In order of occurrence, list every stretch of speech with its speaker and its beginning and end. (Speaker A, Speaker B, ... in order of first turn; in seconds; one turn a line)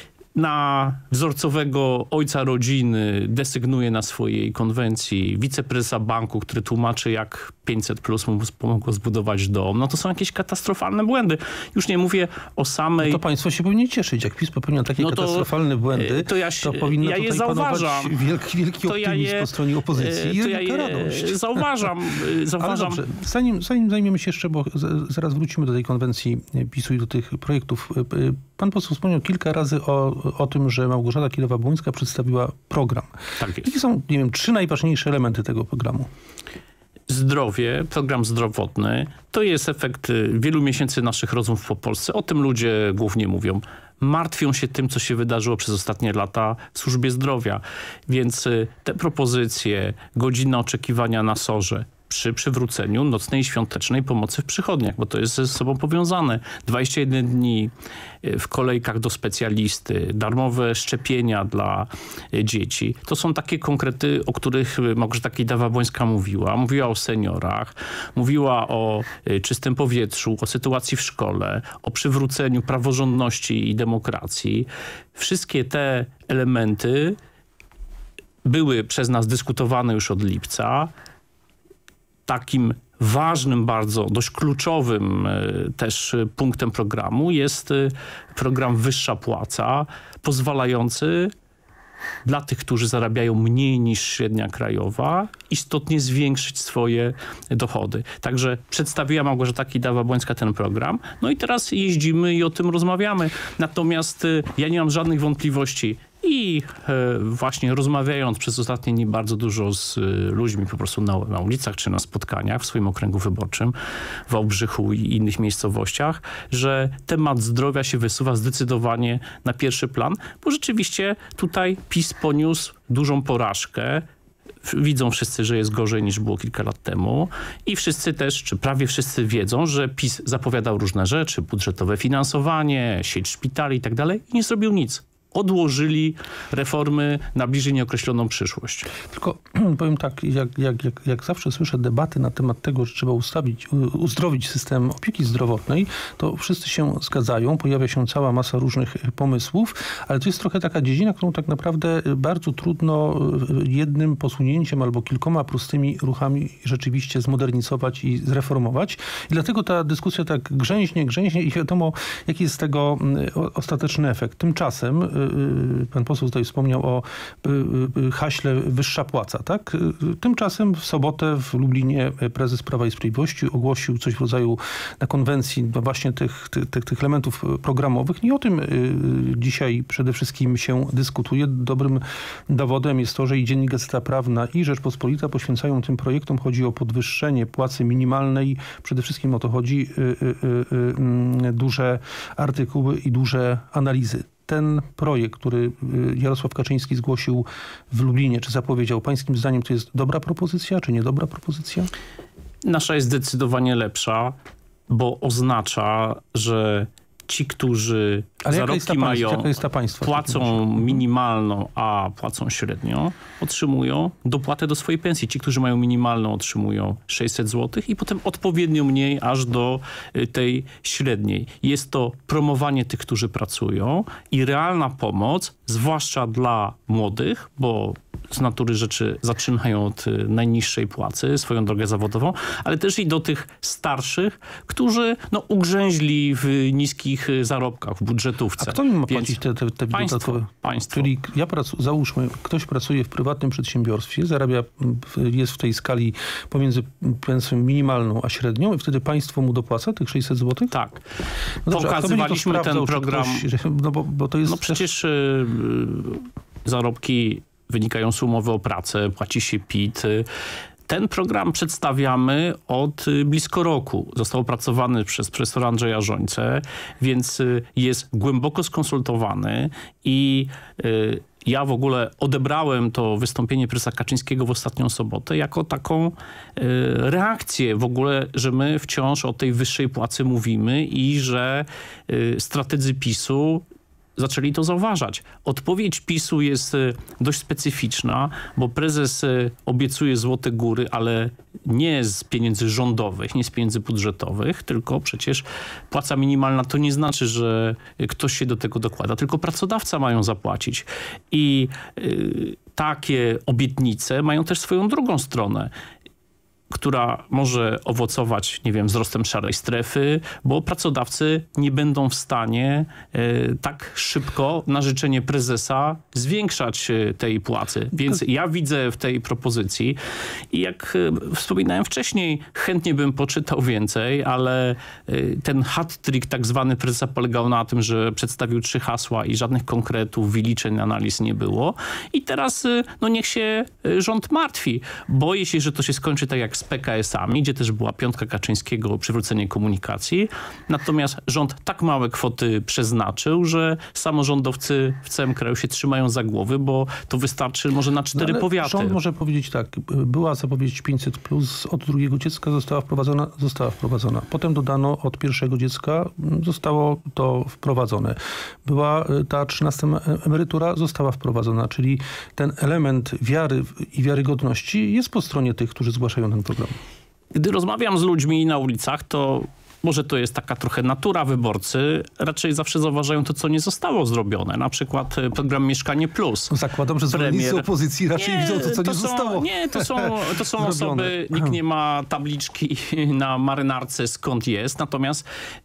Speaker A: 0.3-13.2
Speaker B: 13.0-21.9
Speaker A: 15.0-18.2
Speaker A: 18.8-23.0
Speaker B: 22.6-36.1
Speaker A: 33.4-33.7
Speaker A: 37.1-57.7
Speaker A: 58.2-77.2
Speaker A: 78.4-80.9
Speaker A: 82.3-91.3
Speaker A: 92.2-113.8
Speaker A: 114.3-124.0
Speaker A: 124.6-138.9
Speaker B: 139.1-201.9
Speaker A: 202.7-204.4
Speaker A: 204.9-239.4
Speaker B: 208.4-211.0
Speaker B: 238.6-250.7
Speaker A: 239.9-241.1
Speaker A: 250.7-251.0
Speaker B: 251.7-254.9
Speaker A: 251.7-253.5
Speaker A: 254.5-260.3
Speaker A: 260.9-283.6
Speaker A: 284.2-305.7
Speaker A: 306.7-320.0
Speaker A: 320.5-349.0
Speaker B: 348.1-366.8
Speaker A: 367.3-376.5
Speaker B: 376.5-381.6
Speaker A: 377.1-385.2